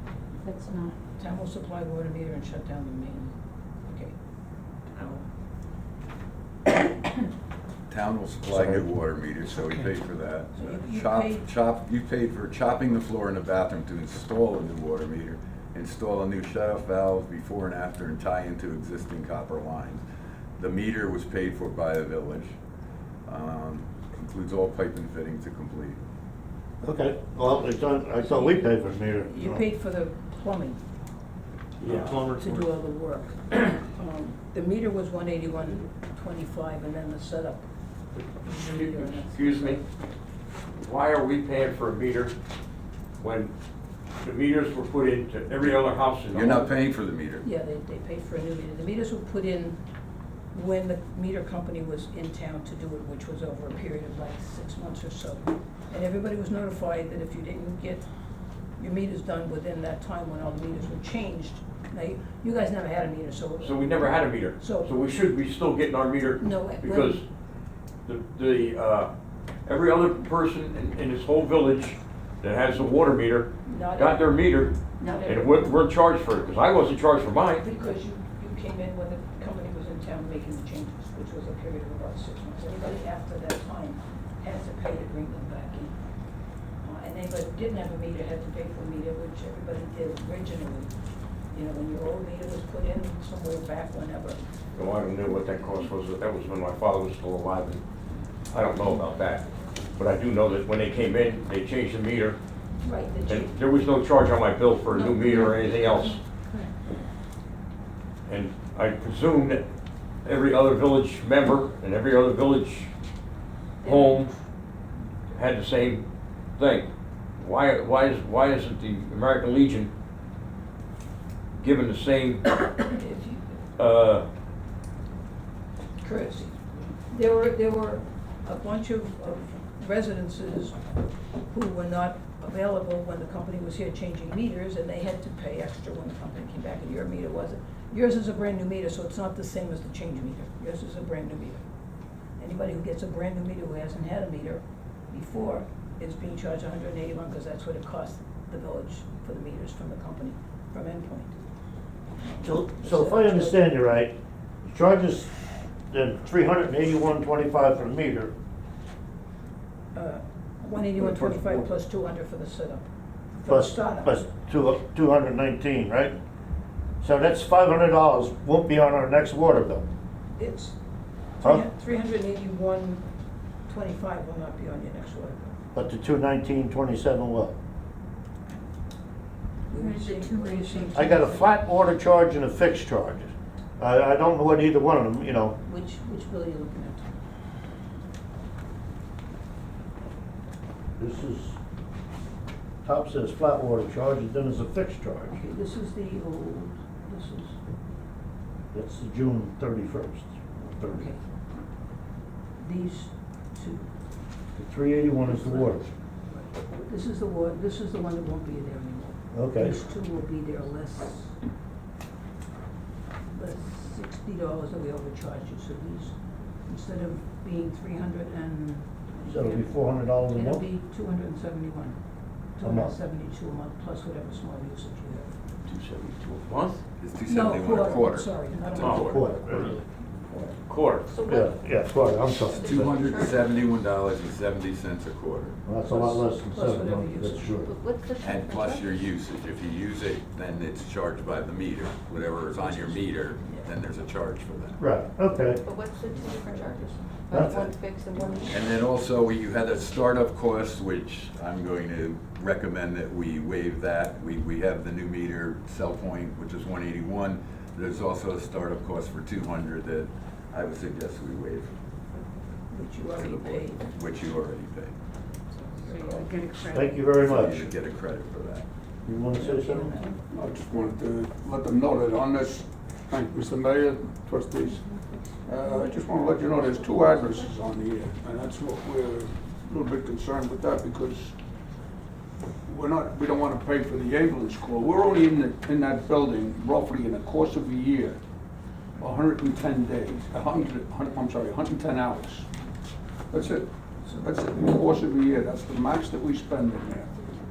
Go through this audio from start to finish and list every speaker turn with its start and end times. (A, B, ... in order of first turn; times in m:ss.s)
0:00.4-0:01.0 A
0:01.2-0:03.3 B
0:03.8-0:04.1 B
0:05.0-0:05.2 B
0:07.9-0:20.0 C
0:08.5-0:08.9 D
0:10.6-0:11.5 B
0:20.6-0:22.6 C
0:23.3-0:26.0 C
0:26.8-0:29.6 D
0:28.2-0:30.8 B
0:31.8-0:32.3 E
0:31.8-0:32.7 D
0:32.2-0:37.6 B
0:38.4-0:39.8 B
0:38.4-0:39.8 E
0:40.8-0:42.4 E
0:43.2-0:43.5 E
0:44.2-0:46.7 E
0:46.3-0:47.5 C
0:47.4-0:49.8 B
0:50.5-0:58.0 B
0:58.8-1:04.9 B
1:03.6-1:07.2 E
1:06.4-1:07.2 B
1:08.0-1:09.1 E
1:09.7-1:17.6 E
1:13.6-1:14.4 B
1:15.0-1:15.8 B
1:17.6-1:25.9 B
1:26.8-1:30.9 B
1:31.5-1:34.4 B
1:34.8-1:37.8 E
1:38.5-1:42.4 E
1:42.8-1:43.6 B
1:43.2-1:46.2 E
1:45.3-1:45.6 A
1:45.8-1:46.2 F
1:48.3-1:49.7 E
1:50.2-1:52.9 E
1:53.8-1:54.3 B
1:53.8-1:54.3 E
1:55.3-1:56.1 E
1:56.6-1:59.9 E
2:01.6-2:02.7 E
2:02.8-2:03.4 B
2:03.8-2:04.3 E
2:06.0-2:10.8 B
2:11.5-2:21.6 B
2:22.4-2:31.3 B
2:32.2-2:33.6 B
2:32.4-2:34.1 D
2:34.7-2:35.3 D
2:35.9-2:38.3 D
2:39.9-2:44.2 B
2:43.5-2:46.2 D
2:47.0-2:49.9 D
2:50.4-2:50.8 B
2:51.4-2:53.0 B
2:51.4-2:51.7 D
2:53.7-2:55.5 B
2:55.7-2:57.5 D
2:59.7-3:01.4 B
2:59.8-3:01.4 A
3:00.9-3:05.6 D
3:05.6-3:07.1 B
3:11.0-3:11.6 D
3:12.8-3:15.4 D
3:15.3-3:17.6 B
3:18.7-3:21.1 D
3:20.9-3:21.2 B
3:22.6-3:23.9 B
3:24.6-3:25.8 D
3:25.2-3:31.4 B
3:29.3-3:29.8 D
3:33.3-3:36.2 B
3:36.7-3:42.0 B
3:39.2-3:40.6 D
3:42.6-3:45.4 B
3:42.6-3:43.0 D
3:45.6-3:46.8 E
3:47.0-3:49.2 C
3:47.2-3:50.6 B
3:48.8-3:49.8 E
3:48.8-3:49.8 D
3:50.7-3:51.1 E
3:51.1-3:53.8 F
3:51.3-3:53.0 D
3:52.6-3:55.6 C
3:55.6-3:57.7 D
3:55.8-3:57.6 B
3:57.6-3:59.2 F
3:58.2-4:04.8 C
4:02.7-4:03.7 B
4:04.8-4:05.6 D
4:05.6-4:08.7 F
4:06.1-4:07.0 B
4:07.3-4:07.7 D
4:08.5-4:21.8 C
4:22.7-4:24.0 B
4:23.2-4:25.0 C
4:25.5-4:26.5 B
4:25.8-4:27.0 A
4:26.7-4:27.7 D
4:27.2-4:28.7 C
4:29.0-4:30.0 D
4:29.3-4:30.2 B
4:30.3-4:34.9 G
4:34.7-4:37.6 F
4:35.4-4:41.4 G
4:42.6-4:48.2 G
4:49.0-4:52.5 G
4:53.3-4:57.1 G